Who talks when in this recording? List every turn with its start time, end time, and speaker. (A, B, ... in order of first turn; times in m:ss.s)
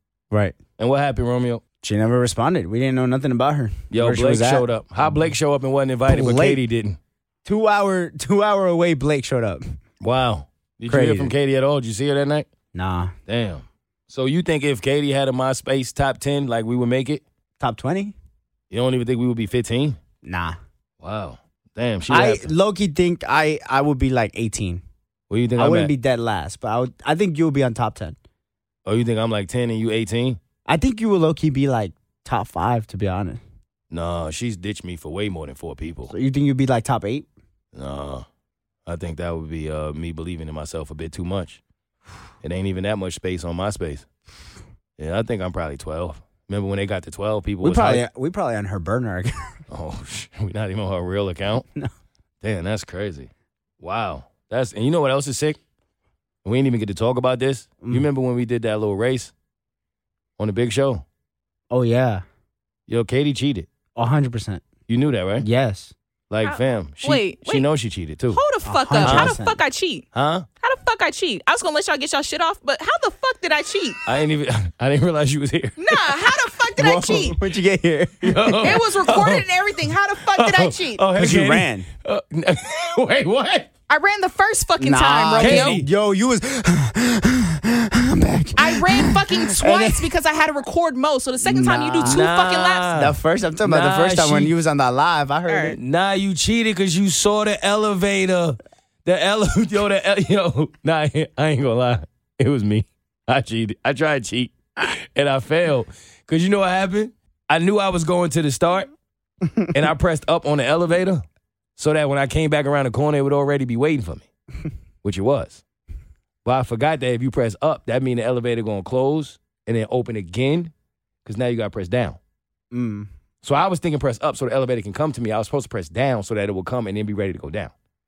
0:00.3-0:00.6 A
0:00.8-0:01.6 B
0:01.8-0:05.2 A
0:03.9-0:07.0 B
0:06.1-0:06.6 A
0:07.4-0:09.6 A
0:10.0-0:12.5 B
0:10.9-0:11.3 A
0:12.7-0:13.2 A
0:13.3-0:17.2 B
0:17.6-0:18.2 A
0:18.7-0:20.0 B
0:20.2-0:20.6 A
0:21.0-0:22.5 B
0:22.1-0:24.8 A
0:25.3-0:25.9 B
0:25.6-0:28.2 A
0:28.9-0:30.4 B
0:30.7-0:33.4 A
0:33.9-0:36.2 B
0:36.1-0:37.3 A
0:37.8-0:38.2 B
0:38.9-0:41.6 B
0:42.4-0:44.1 B
0:45.0-0:48.0 B
0:47.6-0:49.6 A
0:49.7-0:51.7 B
0:52.4-0:53.3 B
0:53.8-0:55.6 B
0:56.4-0:59.3 B
1:00.4-1:01.0 B
1:01.7-1:02.2 A
1:02.9-1:03.7 B
1:04.0-1:04.6 A
1:04.9-1:05.5 B
1:05.4-1:05.9 A
1:06.3-1:08.4 B
1:06.4-1:07.7 C
1:08.3-1:10.1 C
1:08.6-1:09.6 A
1:09.0-1:09.4 B
1:10.1-1:10.5 B
1:10.6-1:14.0 C
1:14.1-1:16.2 B
1:15.8-1:17.4 C
1:16.8-1:18.8 A
1:18.2-1:19.5 B
1:18.6-1:21.0 C
1:20.3-1:23.7 B
1:21.1-1:21.9 A
1:23.9-1:25.8 C
1:24.8-1:30.1 A
1:25.4-1:25.9 B
1:28.6-1:32.9 C
1:31.4-1:32.3 A
1:32.0-1:34.5 B
1:32.9-1:35.8 A
1:35.5-1:35.8 C
1:35.8-1:48.9 B
1:49.7-1:51.2 B
1:51.8-1:54.3 B
1:55.0-1:55.6 B
1:56.4-2:00.7 B
2:01.2-2:02.2 B
2:02.7-2:03.1 A
2:03.4-2:07.7 B